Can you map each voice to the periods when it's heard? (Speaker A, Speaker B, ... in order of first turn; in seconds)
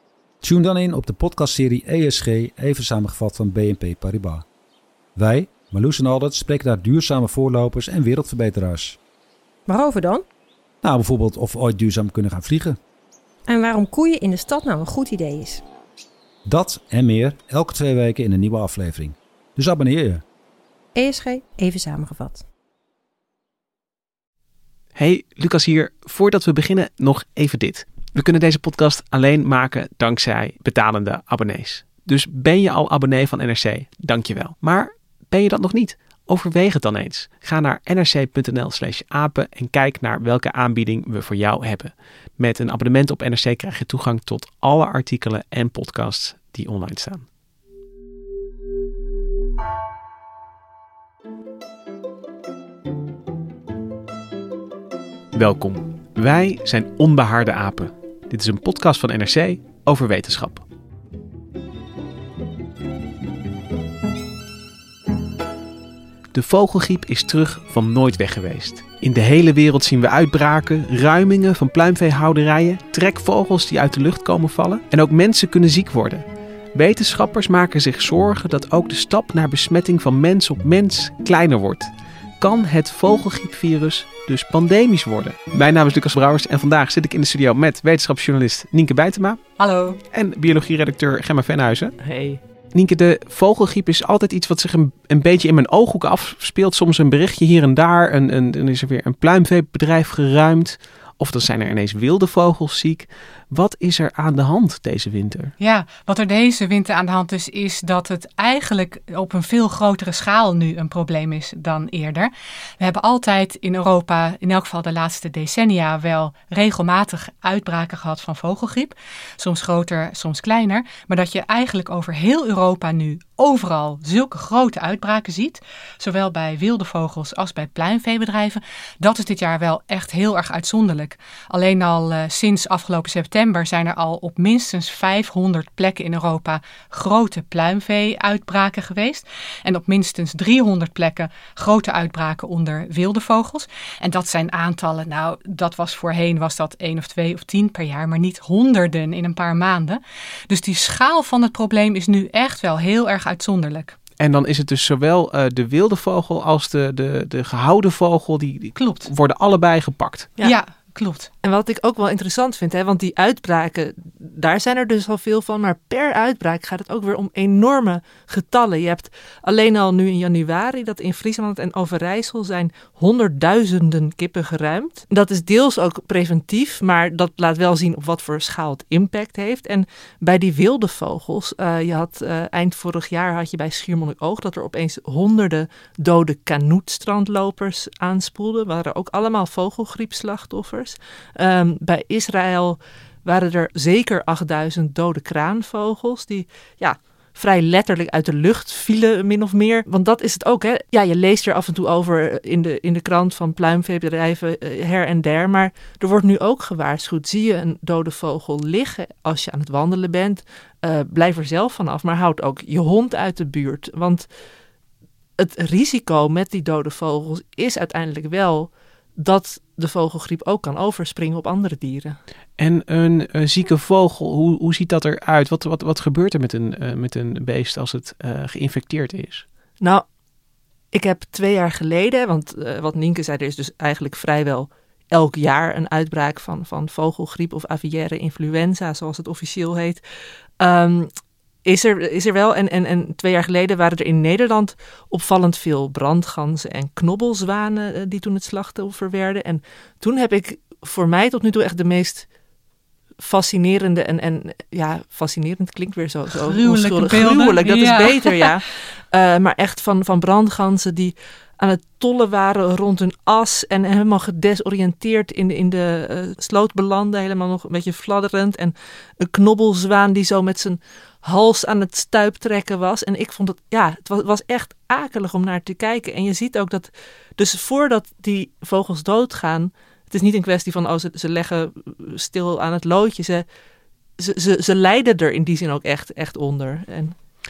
Speaker A: 0.4-4.5, 5.2-9.0, 10.8-12.8, 16.5-20.2
Speaker B: 9.7-10.2, 13.5-15.6, 20.9-22.4
Speaker C: 24.9-47.2, 55.3-60.6, 66.3-89.4, 90.1-92.0, 92.7-105.5, 154.2-160.3, 222.6-229.4
Speaker D: 89.6-90.0, 105.6-153.9, 158.8-159.1, 160.4-161.3, 256.4-258.4
Speaker E: 92.0-92.4, 161.4-214.3, 215.4-222.2, 230.9-240.0, 240.6-241.1, 241.6-252.3, 253.2-283.4, 284.2-287.1